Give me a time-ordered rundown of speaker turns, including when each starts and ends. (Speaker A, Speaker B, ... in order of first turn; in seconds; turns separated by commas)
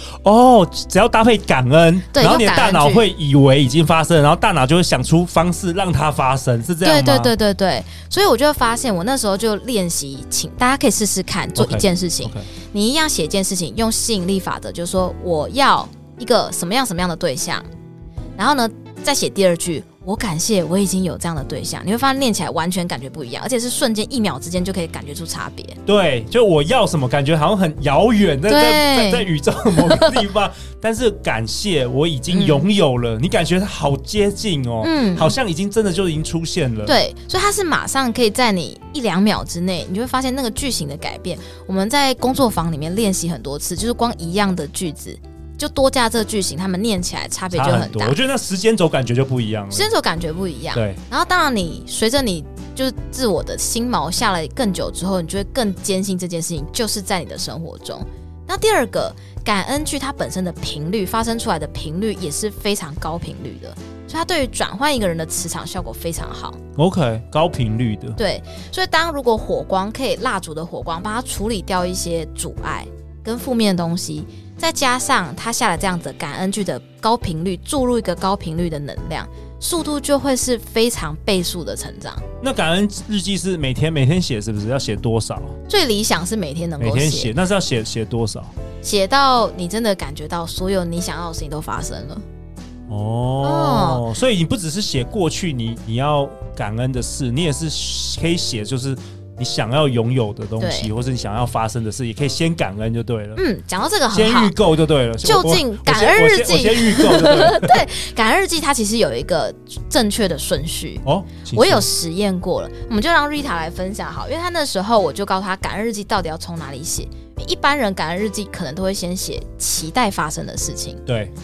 Speaker A: 0.2-7.3, Speaker B: 2.1-3.0, Speaker B: 6.8-17.7, Speaker A: 11.5-12.5, Speaker B: 18.4-25.8, Speaker A: 25.9-37.0, Speaker B: 28.5-30.2, Speaker B: 32.3-32.7, Speaker B: 34.8-35.3, Speaker B: 36.9-48.2, Speaker A: 47.5-49.9, Speaker B: 49.7-66.6, Speaker A: 50.7-51.0, Speaker A: 66.8-68.2, Speaker B: 68.2-82.2, Speaker A: 82.4-85.5, Speaker B: 85.7-87.3, Speaker A: 86.8-88.5, Speaker B: 88.8-92.2, Speaker A: 92.9-103.4, Speaker B: 93.4-94.0, Speaker B: 100.6-100.9, Speaker B: 103.4-104.5, Speaker A: 104.1-107.8, Speaker B: 105.2-111.0, Speaker A: 111.0-111.8, Speaker B: 111.5-121.0, Speaker A: 121.0-121.3